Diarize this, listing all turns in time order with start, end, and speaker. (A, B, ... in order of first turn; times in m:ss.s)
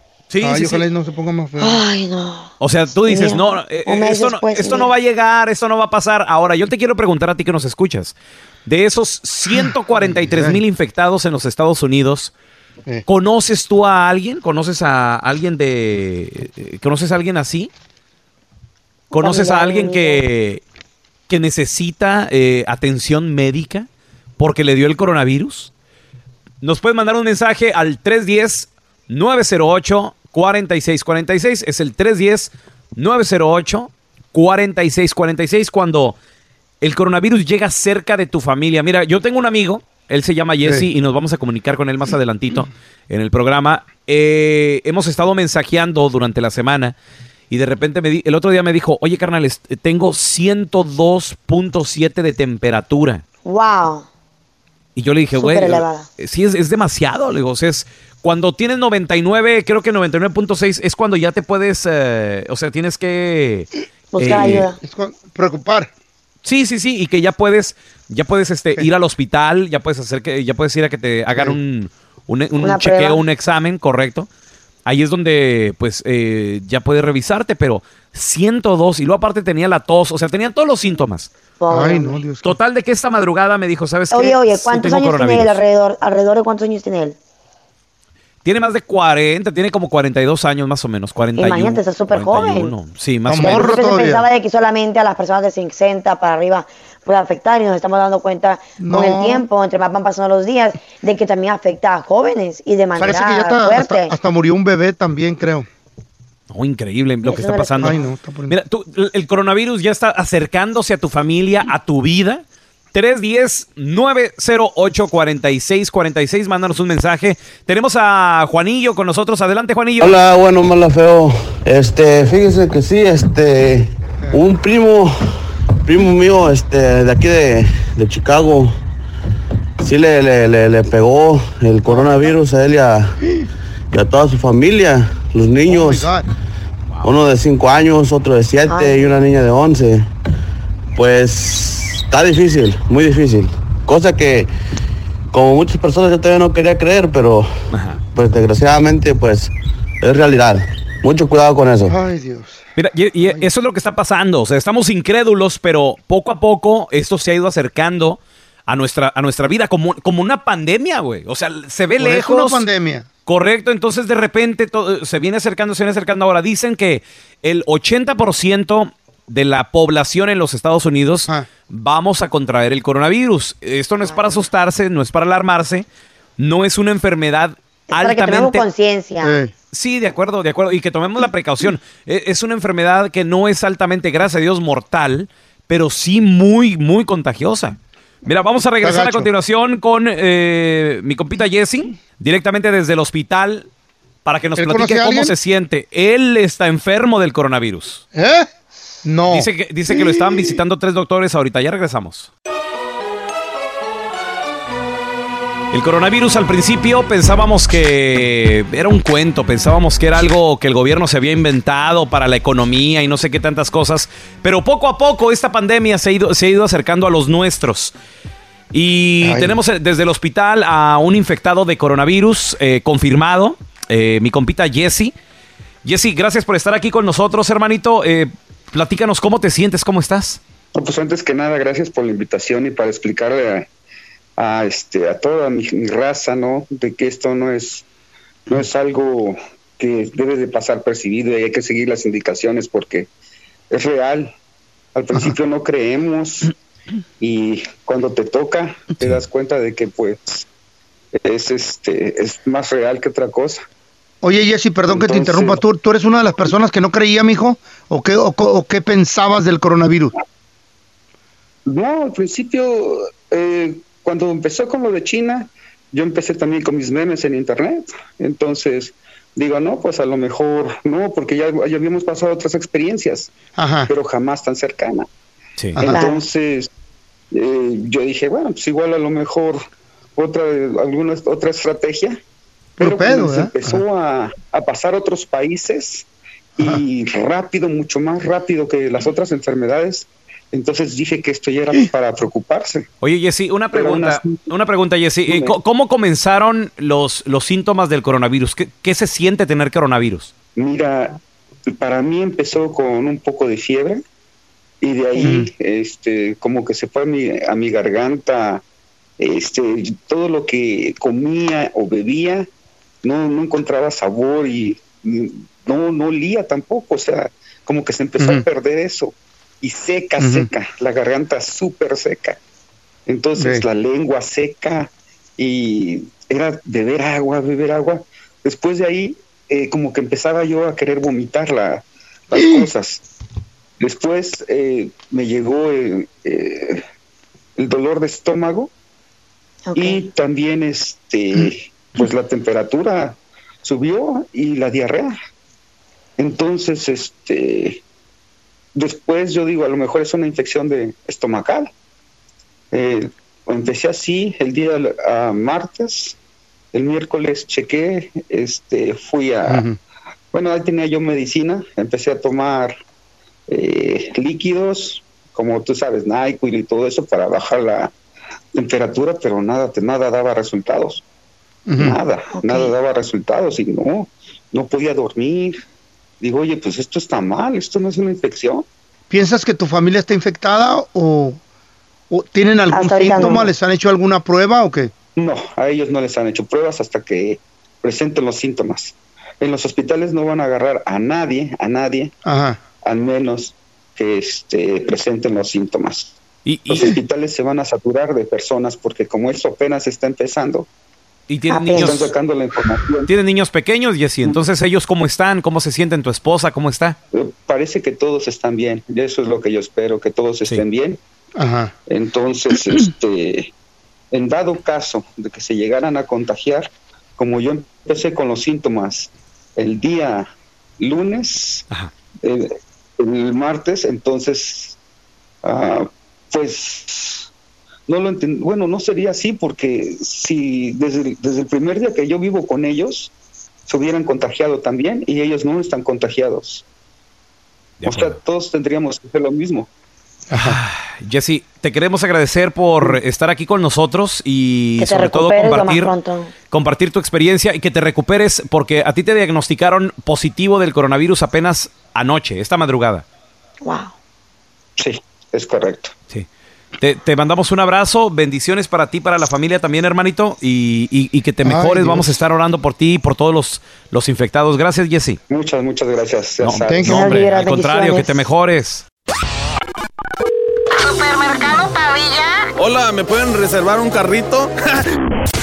0:00.3-0:00.8 A
0:00.4-0:01.8 B
0:01.6-0:02.5 C
0:02.6-0:08.2 A
0:03.0-0:04.9 C
0:08.7-0:12.3 A
0:10.3-0:10.6 B
0:13.1-0:17.7 A
0:19.1-0:20.6 A
0:19.1-0:20.2 C
0:21.3-0:25.7 A
0:26.6-0:36.2 A
0:36.8-0:47.0 A
0:47.5-0:53.2 A
0:53.4-0:54.1 C
0:55.0-1:04.7 A
0:55.4-0:56.1 C
1:04.1-1:04.8 C
1:04.8-1:05.9 B
1:06.4-1:14.3 A
1:12.6-1:13.2 C
1:14.9-1:21.3 A
1:21.6-1:22.2 C
1:21.7-1:22.5 B
1:22.4-1:25.6 A
1:24.1-1:27.2 C
1:28.4-1:33.8 A
1:31.4-1:32.7 C
1:33.3-1:34.2 B
1:33.4-1:44.2 C
1:38.8-1:39.4 B
1:43.0-1:45.7 B
1:46.5-2:00.2 A
1:47.2-1:48.0 C
1:47.8-1:48.6 B
2:00.0-2:08.8 D
2:09.8-2:13.2 D
2:11.9-2:12.2 B
2:13.9-2:16.1 D
2:15.7-2:16.3 B
2:17.0-2:20.1 D
2:18.7-2:19.1 C
2:21.0-2:24.5 D
2:25.3-2:32.0 D
2:27.7-2:28.0 A
2:31.9-2:32.6 B
2:32.8-2:42.6 A
2:42.0-2:43.1 B
2:43.3-2:55.9 A
2:54.0-2:54.4 C
2:56.4-2:58.6 A
2:57.9-2:59.4 C
2:59.2-2:59.5 B
2:59.7-3:13.7 A
3:08.8-3:09.3 B
3:14.2-3:18.0 A
3:14.6-3:15.3 B
3:18.2-3:18.5 B
3:19.0-3:20.0 B
3:19.3-3:22.3 A
3:25.7-3:37.9 A
3:38.7-3:45.1 A
3:39.2-3:39.6 B
3:45.8-3:50.4 A
3:50.8-3:53.7 E
3:54.4-3:57.9 E
3:58.5-4:03.1 E
4:03.7-4:04.3 E
4:05.0-4:06.5 E
4:07.2-4:10.5 E
4:11.1-4:13.6 E
4:14.2-4:20.1 B
4:14.9-4:15.6 E
4:21.7-4:33.3 E
4:33.6-4:33.9 B
4:33.9-4:35.1 E
4:35.8-4:36.7 E
4:35.9-4:36.2 C
4:37.3-4:39.6 E
4:40.2-4:42.2 E
4:42.8-4:43.6 B
4:42.8-4:46.1 E
4:46.6-4:52.8 E
4:53.0-5:00.3 A
4:53.7-4:54.4 E
4:55.3-4:55.6 E
5:00.6-5:04.0 E
5:04.8-5:08.6 E
5:09.2-5:12.5 E
5:13.0-5:22.4 E
5:23.1-5:33.0 E
5:33.8-5:36.8 E
5:37.6-5:38.7 E
5:39.6-5:40.0 C
5:39.8-5:45.2 E
5:46.2-5:47.8 E
5:48.8-5:51.7 E
5:52.7-5:56.2 E
5:56.7-5:59.6 E
6:00.3-6:02.8 E
6:03.5-6:07.9 E
6:08.6-6:11.0 E
6:11.7-6:12.0 B
6:11.8-6:15.6 E
6:12.4-6:12.7 C
6:16.2-6:18.7 E
6:19.1-6:21.4 B
6:22.1-6:24.9 B
6:22.7-6:23.5 C
6:25.2-6:32.1 E
6:32.2-6:32.6 B
6:32.8-6:36.2 E
6:36.5-6:36.9 A
6:36.7-6:40.7 E
6:41.3-6:42.1 A
6:41.5-6:42.1 C
6:41.8-6:43.1 E
6:43.1-6:47.0 A
6:47.1-6:51.0 E
6:51.4-6:51.7 B
6:51.9-6:53.5 E
6:54.1-7:00.3 E
7:00.8-7:01.6 E
7:02.2-7:04.8 E
7:05.4-7:07.3 E
7:07.9-7:13.1 E
7:13.7-7:16.6 E
7:17.8-7:18.2 A
7:17.8-7:19.7 E
7:20.4-7:25.9 A
7:24.8-7:26.3 C
7:26.5-7:33.0 A
7:33.6-7:33.9 C
7:34.8-7:35.9 E
7:36.8-7:45.2 A
7:41.5-7:42.0 B
7:45.3-7:47.1 E
7:46.4-7:48.8 A
7:46.9-7:48.1 C
7:52.6-7:54.5 F